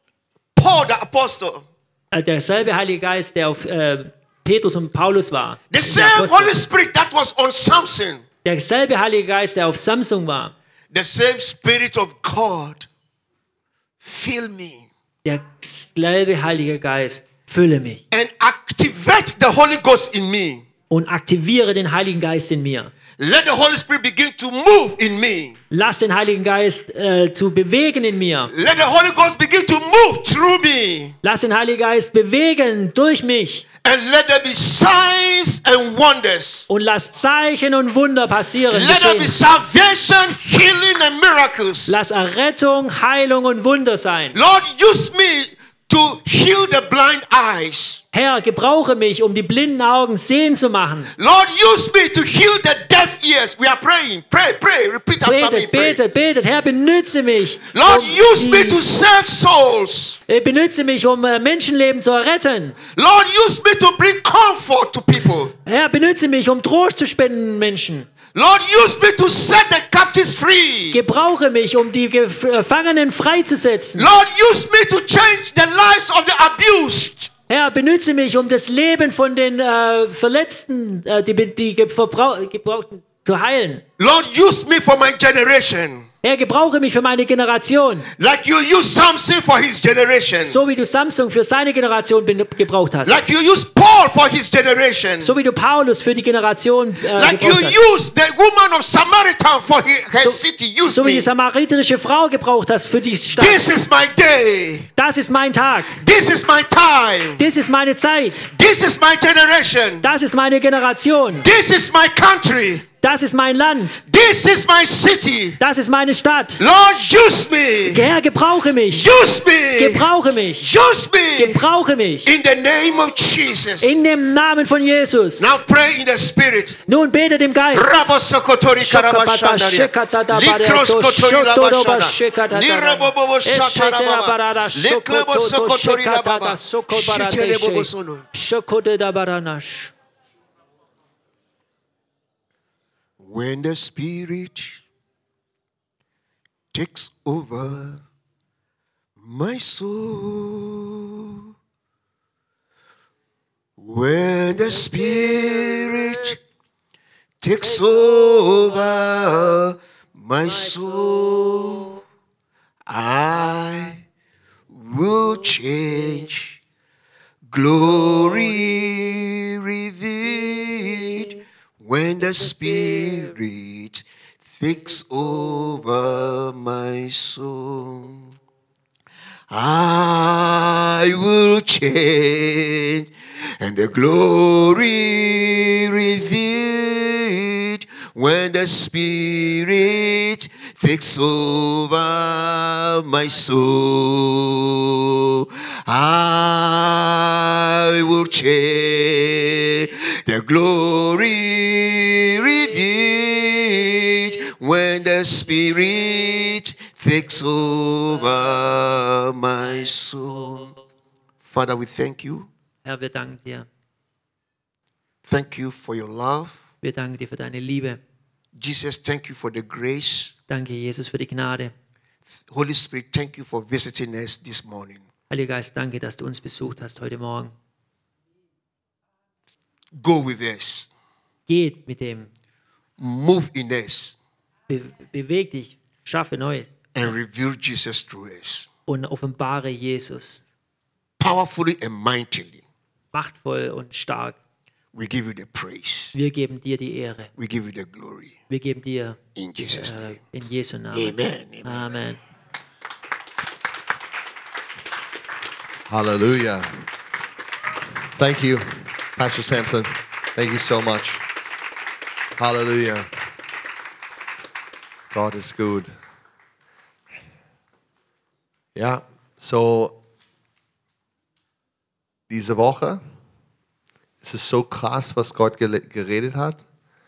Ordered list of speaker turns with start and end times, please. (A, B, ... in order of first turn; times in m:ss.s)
0:00.6-0:01.7 A
0:02.1-0:06.6 B
0:05.7-0:08.3 A
0:08.4-0:10.5 B
0:10.9-0:12.9 A
0:14.0-0:14.9 A
0:15.2-0:18.0 B
0:18.1-0:20.7 A
0:20.9-0:22.9 B
0:23.2-0:25.6 A
0:25.7-0:28.5 B
0:28.5-0:31.2 A
0:31.2-0:33.6 B
0:33.8-0:36.7 A
0:36.7-0:39.3 B
0:38.7-0:42.0 A
0:41.9-0:44.4 B
0:44.3-0:48.0 A
0:48.1-0:51.1 B
0:51.2-0:56.0 A
0:55.2-0:58.8 B
0:57.7-1:00.2 A
1:00.3-1:02.8 B
1:02.9-1:05.5 A
1:05.6-1:08.1 B
1:08.3-1:11.0 A
1:10.9-1:14.1 B
1:14.0-1:17.3 A
1:17.5-1:23.8 B
1:24.0-1:26.1 A
1:26.2-1:28.1 B
1:28.2-1:30.6 A
1:30.4-1:33.2 B
1:33.0-1:35.3 A
1:35.2-1:37.8 B
1:37.1-1:41.3 A
1:40.2-1:43.6 B
1:43.3-1:44.9 A
1:45.0-1:46.0 B
1:45.9-1:47.5 A
1:47.4-1:48.5 B
1:48.5-1:50.1 A
1:50.0-1:51.5 B
1:51.3-1:52.8 A
1:53.0-1:54.0 B
1:54.1-1:55.6 A
1:55.6-1:56.6 B
1:56.6-1:58.1 A
1:57.9-1:59.1 B
1:58.9-2:01.6 A
1:59.8-2:00.7 B
2:01.4-2:02.3 B
2:02.2-2:03.9 A
2:03.8-2:05.6 B
2:05.4-2:06.8 A
2:06.9-2:08.1 B
2:07.7-2:18.3 A
2:08.8-2:19.9 B
2:23.2-2:24.8 A
2:26.7-2:28.0 A
2:29.2-2:31.4 A
2:33.8-2:36.4 A
2:34.8-2:36.2 B
2:37.4-2:42.0 A
2:40.8-2:41.4 B
2:42.9-2:44.0 A
2:44.7-2:46.6 A
2:47.5-2:54.1 A
2:54.6-2:58.4 A
2:59.5-3:30.7 A
3:31.4-3:32.5 A
3:32.8-3:33.7 B
3:35.2-3:36.6 A
3:36.8-3:38.0 B
3:38.6-3:40.3 A
3:40.5-3:41.7 B
3:42.5-3:45.1 A
3:45.3-3:47.5 B
3:49.9-3:50.9 A
3:51.5-3:52.3 B
3:53.0-3:54.2 A
3:54.7-3:57.1 B
3:56.9-3:58.7 A
3:58.9-4:00.4 B
4:01.2-4:02.6 A
4:03.1-4:04.4 B
4:04.9-4:06.1 A
4:06.1-4:07.3 B
4:07.4-4:08.4 A
4:08.5-4:12.2 B
4:09.4-4:10.2 A
4:10.9-4:11.9 A
4:15.9-4:16.7 C
4:18.2-4:21.3 C
4:22.4-4:23.1 C
4:25.1-4:25.9 C
4:28.8-4:30.0 C
4:32.3-4:33.0 C
4:34.2-4:36.6 C